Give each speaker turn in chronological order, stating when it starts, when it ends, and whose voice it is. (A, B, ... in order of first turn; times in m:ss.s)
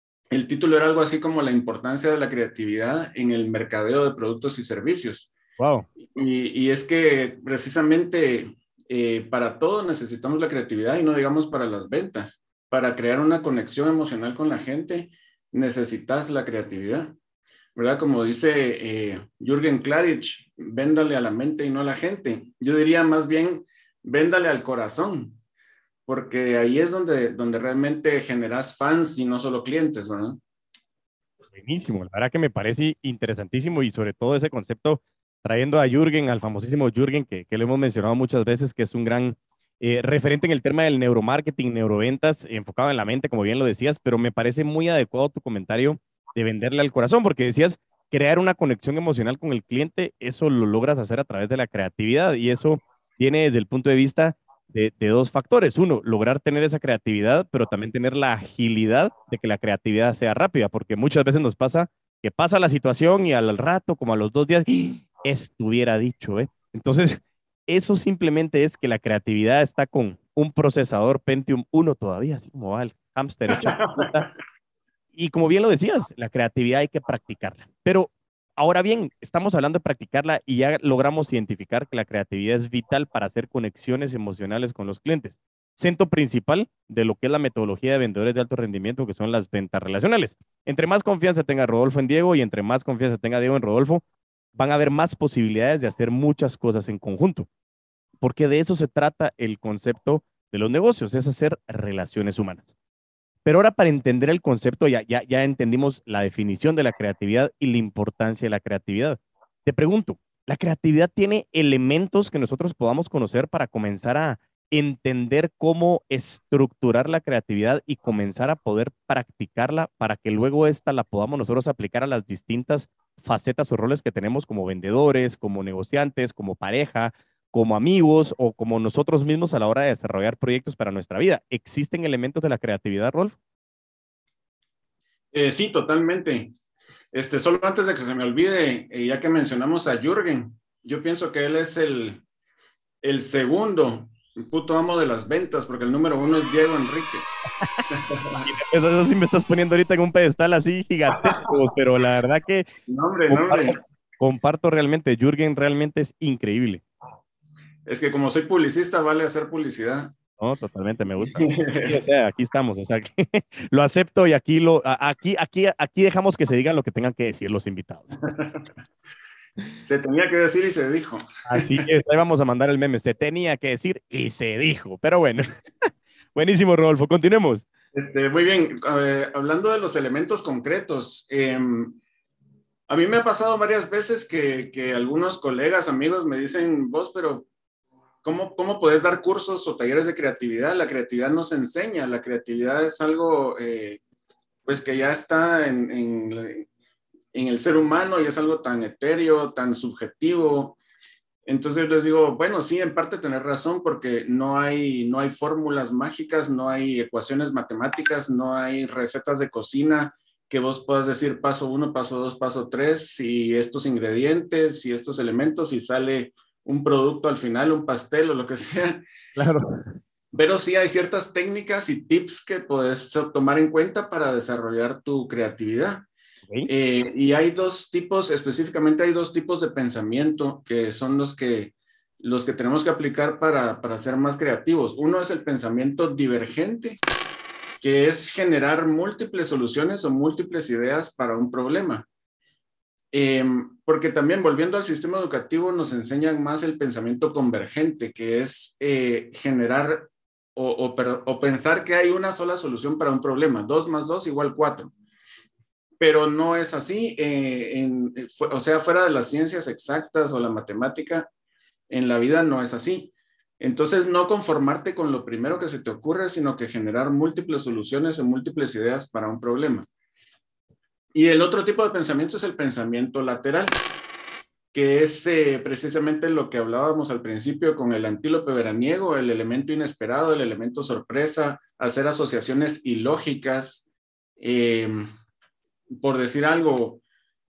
0:00.3-0:05.3 A
0:05.6-0:05.9 B
0:06.0-0:17.2 A
0:17.8-0:25.4 A
0:26.1-0:30.4 A
0:31.5-1:14.3 B
1:13.6-1:14.3 A
1:15.1-1:34.0 B
1:34.6-1:37.5 B
1:38.2-1:42.7 B
1:43.4-2:13.4 B
2:15.3-2:16.5 A
2:17.1-2:22.2 A
2:23.0-2:28.4 A
2:28.4-2:32.7 B
2:32.9-2:33.8 A
2:33.3-2:36.8 B
2:37.9-2:40.1 A
2:40.4-2:48.2 B
2:41.2-2:42.0 A
2:48.4-2:48.6 A
2:49.8-2:51.8 A
2:51.5-2:55.4 B
2:56.4-2:57.7 B
2:57.9-3:02.0 A
3:02.9-3:07.5 A
3:08.2-3:14.0 A
3:14.7-3:16.7 A
3:17.3-3:20.8 A
3:21.5-3:39.0 A
3:39.4-3:39.7 B
3:40.3-3:46.1 A
3:46.7-3:57.0 A
3:57.8-4:02.1 A
4:03.1-4:14.9 A
4:16.0-4:21.3 A
4:21.9-4:29.9 A
4:31.1-4:33.8 A
4:34.7-4:43.9 A
4:44.4-4:45.1 A
4:45.9-4:47.0 A